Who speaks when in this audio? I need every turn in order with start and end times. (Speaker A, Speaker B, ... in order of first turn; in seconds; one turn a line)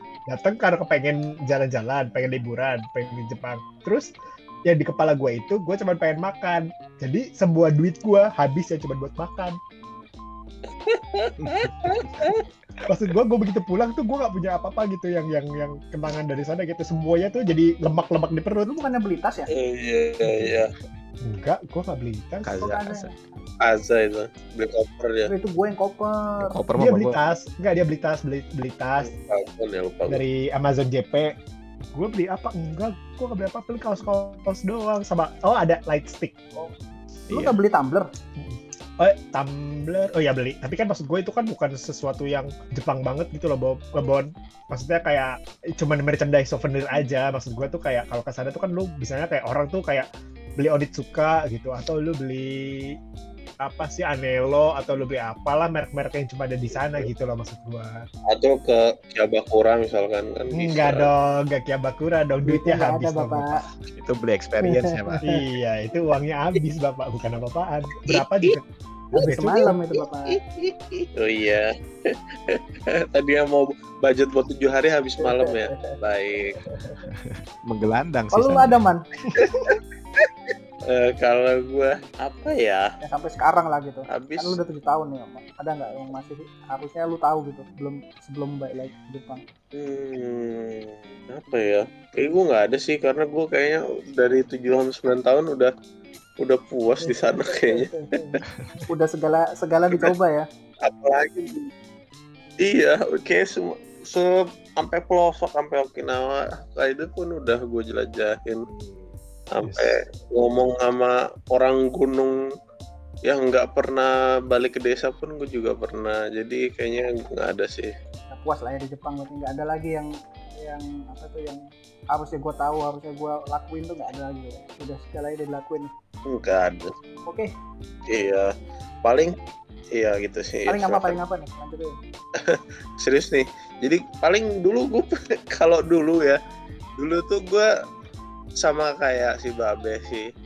Speaker A: 0.3-4.1
Speaker A: 4.7-9.6
Speaker B: 10.9-12.4
Speaker C: 11.4-11.7
Speaker A: 12.8-18.8
Speaker D: 18.7-19.5
Speaker B: 19.5-20.7
Speaker A: 21.2-22.7
Speaker C: 22.4-23.1
Speaker D: 22.5-23.4
Speaker B: 23.7-25.3
Speaker D: 25.2-26.6
Speaker C: 26.4-27.2
Speaker A: 26.8-29.1
Speaker B: 29.0-30.2
Speaker A: 30.1-31.3
Speaker A: 31.9-36.4
Speaker C: 37.3-37.6
Speaker D: 37.3-38.1
Speaker A: 38.4-50.1
Speaker A: 50.6-53.0
Speaker A: 53.6-58.0
Speaker B: 58.3-61.1
Speaker A: 60.6-63.6
Speaker D: 62.5-63.6
Speaker C: 64.0-65.2
Speaker D: 64.6-65.4
Speaker A: 65.2-68.6
Speaker B: 68.1-68.6
Speaker A: 69.1-69.7
Speaker D: 69.1-70.4
Speaker B: 69.7-76.6
Speaker D: 75.2-76.0
Speaker D: 76.7-77.0
Speaker C: 77.1-78.8
Speaker D: 78.3-79.0
Speaker B: 79.3-82.8
Speaker D: 83.0-89.4
Speaker B: 84.1-84.6
Speaker B: 89.7-95.7
Speaker B: 96.4-97.9
Speaker D: 97.0-100.5
Speaker B: 100.8-101.7
Speaker B: 102.6-108.7
Speaker D: 108.7-109.1
Speaker B: 109.5-112.3
Speaker C: 109.6-109.9
Speaker B: 113.3-117.9
Speaker D: 118.3-120.1
Speaker D: 120.6-125.9
Speaker B: 126.3-127.0
Speaker D: 127.3-127.5
Speaker B: 128.1-128.5
Speaker B: 129.0-129.3
Speaker B: 129.9-131.2
Speaker D: 130.7-132.0
Speaker B: 132.4-136.4
Speaker B: 137.0-137.7
Speaker B: 138.6-140.3